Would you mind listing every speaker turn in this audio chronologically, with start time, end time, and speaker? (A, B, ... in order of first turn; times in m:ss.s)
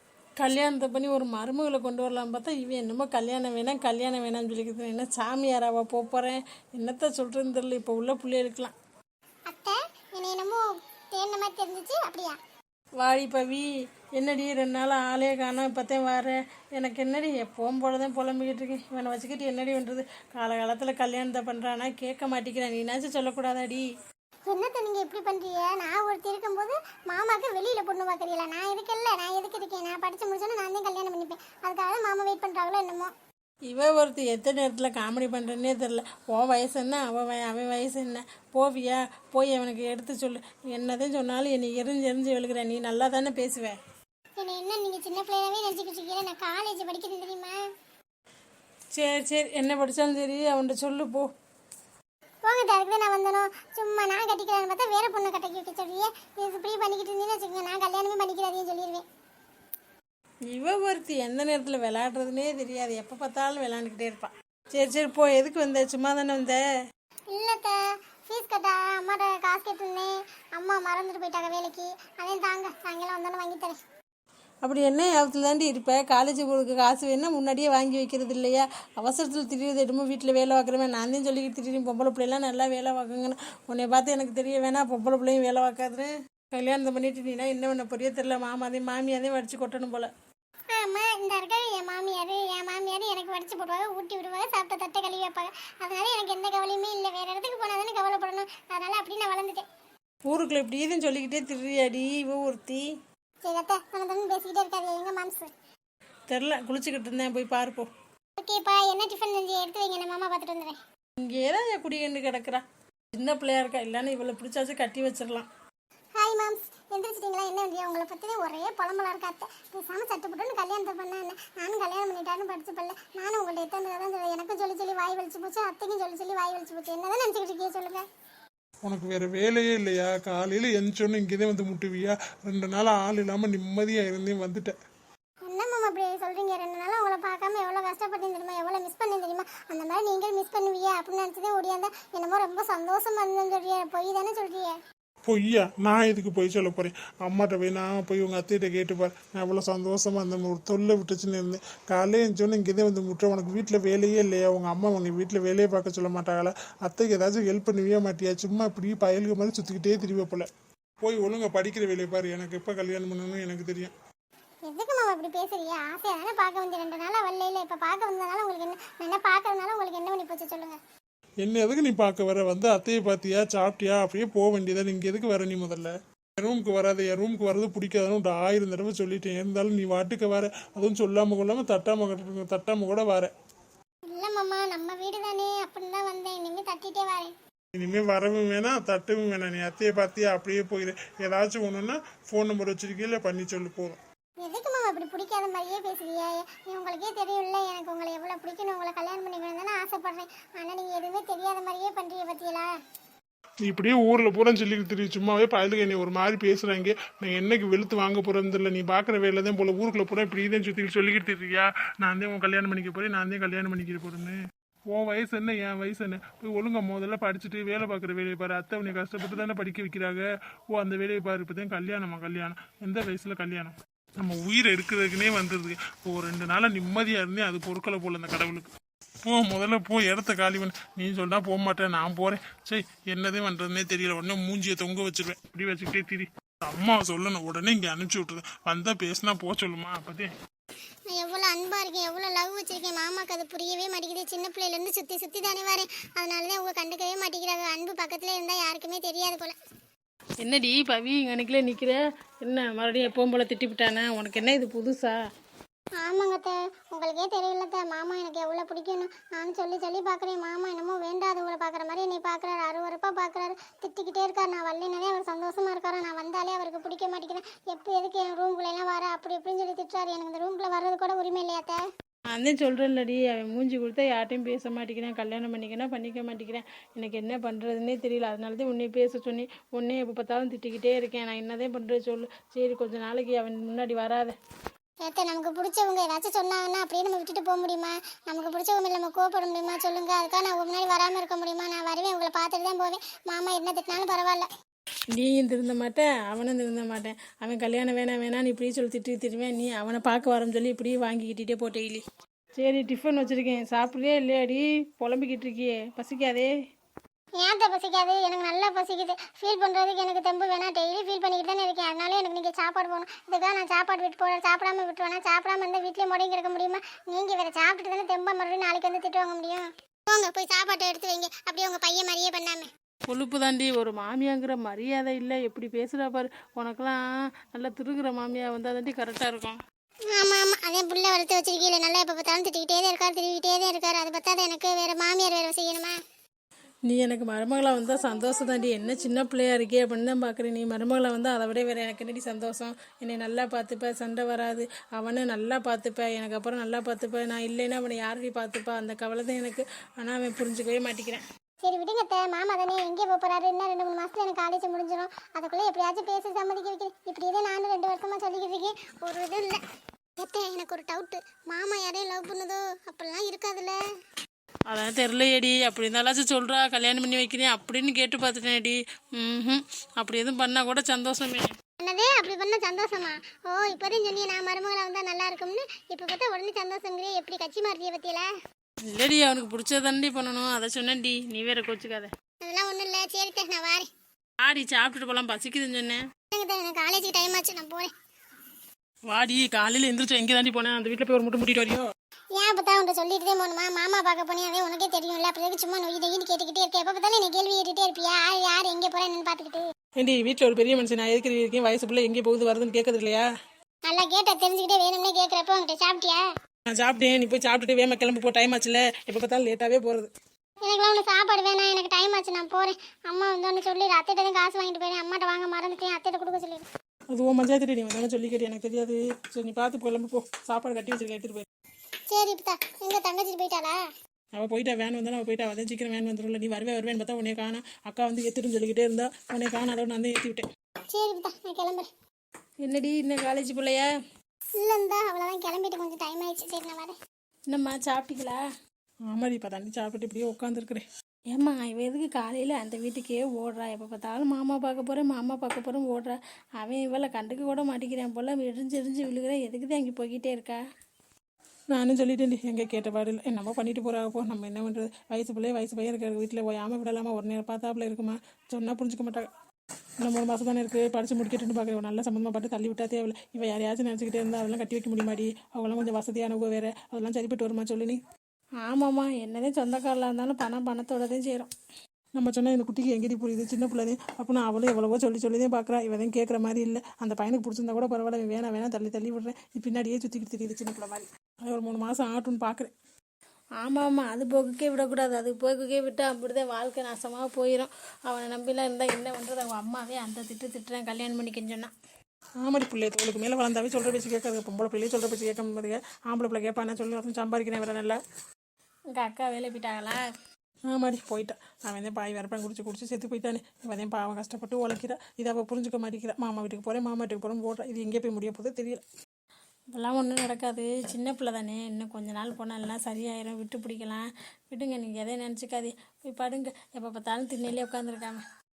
0:00.4-0:08.7 A
0:09.5-0:12.4 B
0:13.0-0:23.8 A
0:24.5-0:33.1 B
0:33.7-0:43.8 A
0:44.4-0:47.5 B
0:48.9-0:51.3 A
0:52.4-0:59.0 B
1:00.5-1:06.6 A
1:07.3-1:07.8 B
1:08.3-1:13.8 B
1:14.6-1:30.1 A
1:30.7-1:39.6 B
1:40.3-1:42.8 A
1:43.4-1:45.5 B
1:46.3-1:47.9 A
1:48.4-1:50.8 B
1:51.2-1:52.6 A
1:53.1-1:55.5 A
1:56.2-2:08.0 B
2:08.8-2:14.7 C
2:15.4-2:24.7 B
2:25.2-2:40.5 C
2:41.0-2:43.9 C
2:44.7-2:50.8 B
2:51.4-3:03.3 C
3:04.1-3:07.3 B
3:07.7-3:14.0 C
3:14.4-3:22.7 B
3:23.6-3:34.4 C
3:34.9-3:48.7 C
3:49.2-4:00.3 C
4:01.1-4:09.5 B
4:10.4-4:15.1 A
4:16.0-4:31.8 B
4:32.3-4:44.3 A
4:45.0-4:54.5 B
4:55.1-5:02.0 A
5:02.6-5:06.5 A
5:07.4-5:22.7 B
5:23.1-5:29.6 A
5:30.1-5:35.9 B
5:36.9-5:51.2 A
5:51.6-5:59.6 B
6:00.2-6:03.8 B
6:04.7-6:11.5 A
6:11.8-6:18.3 B
6:18.9-6:22.1 A
6:22.4-6:23.9 B
6:24.4-6:26.0 A
6:26.3-6:27.9 B
6:29.1-6:31.8 A
6:32.4-6:39.6 B
6:40.0-6:43.2 A
6:43.9-6:46.2 B
6:46.8-6:50.1 A
6:50.6-6:56.7 B
6:57.1-7:01.4 A
7:02.1-7:03.8 B
7:04.3-7:10.4 A
7:10.9-7:11.9 B
7:12.6-7:13.9 A
7:14.6-7:17.0 B
7:17.5-7:18.4 A
7:19.1-7:30.6 A
7:31.7-7:39.3 A
7:40.0-7:48.0 A
7:48.6-7:51.5 A
7:52.1-8:02.7 A
8:03.6-8:11.7 A
8:12.4-8:18.0 A
8:18.9-8:20.0 A
8:20.7-8:28.8 A
8:29.7-8:38.2 A